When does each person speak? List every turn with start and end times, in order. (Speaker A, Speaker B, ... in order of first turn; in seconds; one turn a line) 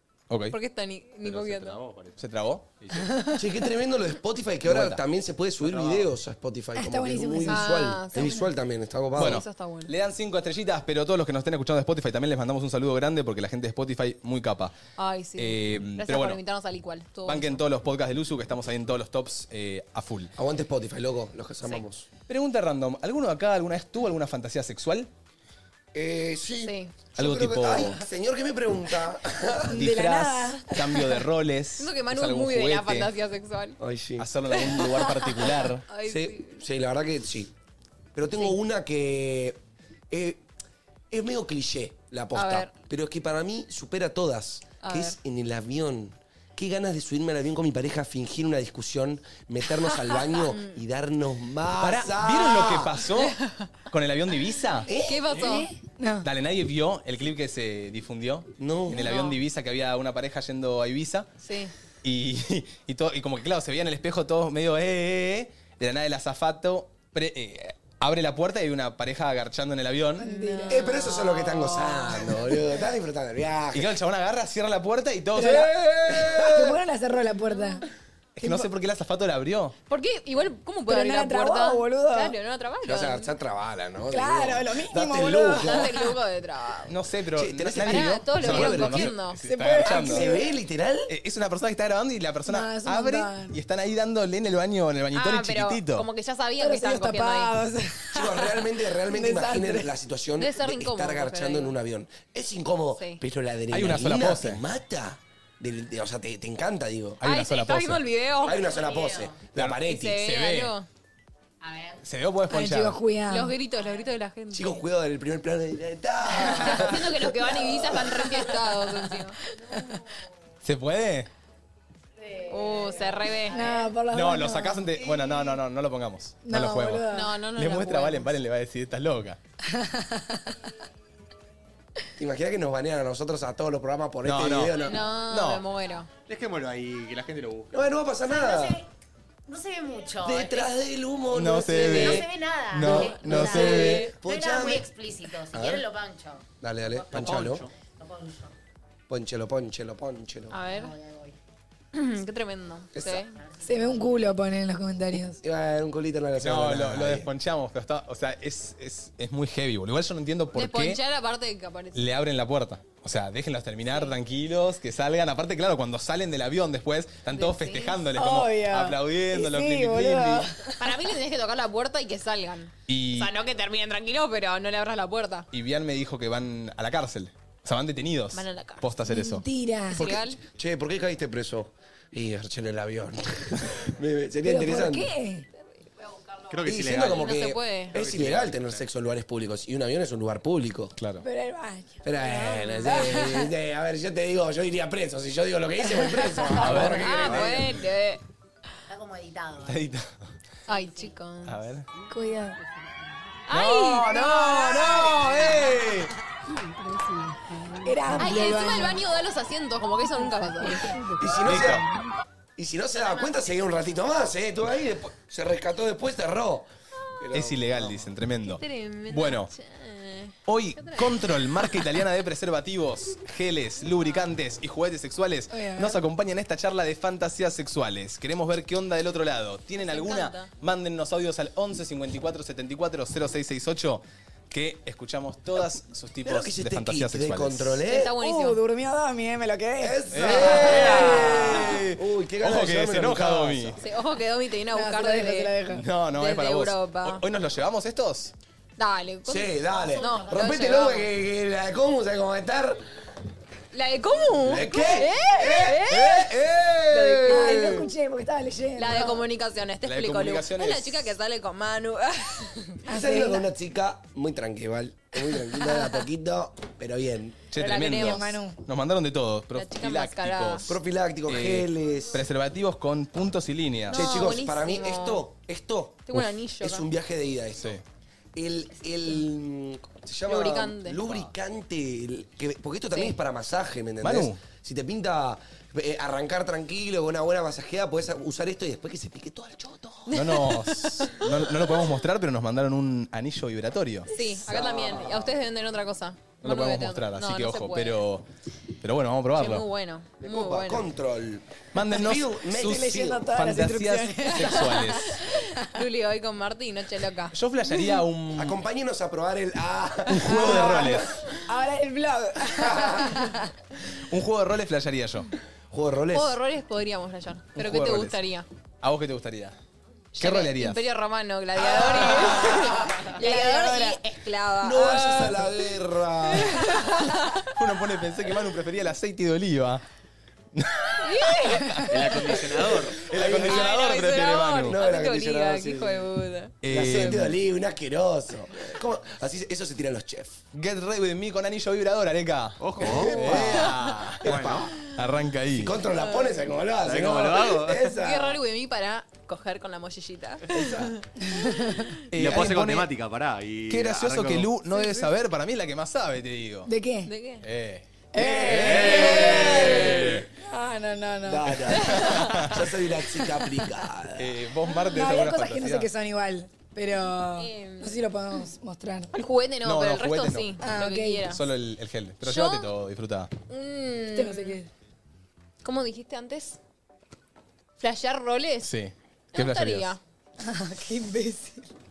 Speaker A: 0.3-0.6
Speaker B: 0.5-1.8
Speaker C: 1.2-2.2
Speaker A: 2.2-2.7
Speaker C: 2.8-3.4
Speaker D: 3.4-9.4
Speaker A: 4.6-5.0
Speaker C: 5.6-6.1
Speaker E: 6.8-8.4
Speaker B: 7.5-8.4
Speaker B: 9.2-9.9
Speaker A: 9.2-14.7
Speaker B: 15.0-17.6
Speaker A: 15.4-16.4
Speaker A: 17.2-20.3
Speaker D: 20.4-22.1
Speaker A: 22.3-25.1
Speaker D: 25.9-29.7
Speaker B: 26.6-26.9
Speaker A: 27.2-28.0
Speaker E: 29.7-31.2
Speaker A: 29.7-33.1
Speaker B: 31.8-33.8
Speaker D: 33.8-34.3
Speaker A: 34.2-35.9
Speaker B: 34.5-36.6
Speaker D: 36.0-37.5
Speaker D: 38.1-39.6
Speaker D: 40.1-40.4
Speaker D: 41.1-52.9
Speaker B: 42.3-42.7
Speaker B: 44.8-45.1
Speaker B: 50.3-50.8
Speaker A: 51.8-53.3
Speaker B: 53.2-53.7
Speaker A: 53.9-54.9
Speaker D: 54.9-55.6
Speaker B: 54.9-55.7
Speaker E: 55.9-56.3
Speaker A: 56.2-61.3
Speaker D: 58.6-59.1
Speaker B: 58.9-59.4
Speaker B: 61.4-61.7
Speaker A: 62.0-70.3
Speaker E: 70.2-70.8
Speaker B: 70.2-72.3
Speaker D: 70.7-73.9
Speaker A: 73.7-75.7
Speaker E: 75.3-77.8
Speaker D: 75.7-76.7
Speaker A: 78.4-79.7
Speaker E: 78.4-78.7
Speaker B: 79.9-83.3
Speaker E: 80.9-82.3
Speaker D: 82.8-85.9
Speaker E: 84.1-86.0
Speaker B: 85.5-86.9
Speaker A: 86.9-90.3
Speaker D: 87.3-89.1
Speaker B: 87.8-89.4
Speaker E: 89.4-90.5
Speaker D: 89.9-91.1
Speaker A: 91.1-96.1
Speaker E: 92.5-93.5
Speaker B: 95.1-97.5
Speaker E: 96.6-99.9
Speaker D: 98.1-107.2
Speaker B: 100.4-101.7
Speaker A: 103.7-104.6
Speaker A: 107.2-108.0
Speaker B: 107.2-108.7
Speaker D: 108.4-110.3
Speaker F: 108.5-109.5
Speaker A: 109.5-110.7
Speaker B: 109.8-110.9
Speaker F: 111.6-112.0
Speaker A: 112.0-113.0
Speaker E: 112.5-113.5
Speaker B: 113.3-114.8
Speaker F: 113.7-114.1
Speaker D: 114.5-118.4
Speaker B: 116.3-119.4
Speaker A: 120.6-121.3
Speaker B: 122.5-123.7
Speaker E: 123.5-124.9
Speaker A: 124.1-129.4
Speaker E: 126.4-127.3
Speaker B: 127.1-128.3
Speaker E: 129.7-130.5
Speaker D: 132.2-135.0
Speaker A: 134.2-135.6
Speaker B: 134.8-136.1
Speaker C: 136.3-137.7
Speaker D: 137.7-138.8
Speaker F: 138.2-138.8
Speaker F: 139.5-140.7
Speaker D: 140.2-144.9
Speaker A: 141.3-144.1
Speaker F: 141.9-148.5
Speaker D: 145.5-145.8
Speaker D: 146.6-147.7
Speaker C: 147.1-147.7
Speaker D: 149.1-150.6
Speaker B: 150.5-150.9
Speaker F: 150.7-151.3
Speaker B: 151.9-153.3
Speaker D: 152.9-153.2
Speaker F: 153.3-154.3
Speaker E: 153.6-155.4
Speaker D: 155.4-157.3
Speaker A: 156.4-161.0
Speaker B: 160.5-162.1
Speaker A: 161.9-170.5
Speaker B: 167.3-168.0
Speaker E: 168.1-170.8
Speaker B: 170.8-175.5
Speaker A: 172.9-173.3
Speaker A: 175.5-179.4
Speaker B: 178.3-178.9
Speaker E: 179.1-180.0
Speaker B: 179.9-180.4
Speaker D: 180.5-185.1
Speaker E: 184.4-185.4
Speaker C: 186.5-188.8
Speaker D: 186.6-190.9
Speaker B: 187.0-188.0
Speaker A: 191.0-191.2
Speaker E: 191.2-193.5
Speaker D: 192.0-197.7
Speaker E: 196.0-196.3
Speaker A: 196.6-197.5
Speaker B: 196.7-198.2
Speaker F: 198.9-199.8
Speaker A: 199.6-200.3
Speaker B: 200.7-201.6
Speaker F: 200.7-201.1
Speaker A: 201.4-201.9
Speaker E: 202.1-202.6
Speaker B: 203.5-205.6
Speaker A: 203.5-206.1
Speaker E: 207.8-209.0
Speaker B: 208.2-210.9
Speaker E: 210.6-211.0
Speaker D: 211.2-211.8
Speaker A: 211.4-211.8
Speaker D: 212.6-218.1
Speaker F: 213.1-213.4
Speaker A: 217.3-219.5
Speaker B: 218.4-221.2
Speaker A: 220.5-237.8
Speaker E: 225.5-226.0
Speaker B: 229.8-230.5
Speaker D: 236.2-238.1
Speaker B: 237.9-238.6
Speaker E: 238.2-241.7
Speaker D: 239.8-243.8
Speaker A: 240.1-243.8
Speaker B: 243.8-245.6
Speaker E: 244.7-245.8
Speaker A: 245.7-248.3
Speaker B: 246.2-247.2
Speaker B: 248.8-251.1
Speaker D: 249.2-252.8
Speaker F: 249.8-250.8
Speaker B: 253.7-256.3
Speaker D: 254.4-257.1
Speaker A: 256.0-256.7
Speaker B: 256.9-257.9
Speaker E: 257.3-259.2
Speaker A: 257.3-257.7
Speaker B: 258.8-262.8
Speaker A: 259.8-261.1
Speaker E: 262.9-263.4
Speaker D: 262.9-267.4
Speaker A: 267.5-270.7
Speaker B: 267.6-268.4
Speaker E: 267.9-268.6
Speaker B: 269.5-270.7
Speaker D: 270.7-272.2
Speaker A: 271.3-274.2
Speaker D: 273.9-277.8
Speaker B: 273.9-275.2
Speaker B: 276.1-276.9
Speaker D: 278.4-290.1
Speaker B: 280.3-281.1
Speaker A: 284.0-284.4
Speaker B: 290.1-291.3
Speaker A: 290.1-294.1
Speaker B: 294.1-298.0
Speaker D: 294.5-295.3
Speaker A: 296.4-298.2
Speaker A: 298.8-299.6
Speaker B: 299.3-300.8
Speaker D: 300.2-303.3
Speaker A: 301.7-305.2
Speaker E: 302.6-304.8
Speaker B: 304.3-307.3
Speaker A: 307.3-308.6
Speaker D: 308.3-311.1
Speaker A: 310.2-311.1
Speaker E: 310.3-310.9
Speaker E: 311.5-313.3
Speaker D: 312.5-313.0
Speaker A: 314.1-315.3
Speaker D: 315.7-316.4
Speaker B: 316.1-318.5
Speaker A: 317.6-318.2
Speaker A: 318.8-319.6
Speaker B: 320.1-325.6
Speaker A: 320.2-320.8
Speaker D: 321.7-322.7
Speaker E: 323.2-324.0
Speaker D: 324.6-326.7
Speaker B: 326.3-327.4
Speaker A: 327.6-329.8
Speaker A: 330.5-331.9
Speaker B: 331.0-332.2
Speaker C: 331.9-333.1
Speaker A: 333.0-334.8
Speaker D: 333.1-333.7
Speaker B: 333.2-337.2
Speaker D: 334.6-336.0
Speaker A: 336.6-337.3
Speaker D: 336.7-340.4
Speaker A: 340.5-345.8
Speaker C: 342.6-343.6
Speaker D: 342.8-344.7
Speaker B: 343.2-344.0
Speaker C: 344.2-344.7
Speaker D: 345.5-348.4
Speaker B: 345.9-346.4
Speaker C: 346.8-347.9
Speaker B: 347.9-351.4
Speaker D: 350.5-350.9
Speaker E: 351.2-351.9
Speaker A: 352.1-352.9
Speaker C: 352.1-354.6
Speaker A: 353.7-356.7
Speaker E: 356.6-357.1
Speaker B: 357.1-357.4
Speaker A: 357.4-360.2
Speaker E: 358.1-361.6
Speaker D: 358.5-360.2
Speaker D: 361.2-364.4
Speaker B: 361.9-362.4
Speaker A: 362.0-362.5
Speaker A: 364.2-365.9
Speaker E: 364.9-369.1
Speaker B: 367.4-368.0
Speaker B: 369.1-371.4
Speaker A: 369.6-370.5
Speaker E: 370.6-371.2
Speaker A: 371.3-373.3
Speaker B: 372.2-372.7
Speaker B: 373.5-374.6
Speaker E: 374.1-374.7
Speaker B: 375.6-376.6
Speaker B: 377.8-378.7
Speaker A: 378.6-379.9
Speaker B: 379.3-380.0
Speaker E: 380.4-381.6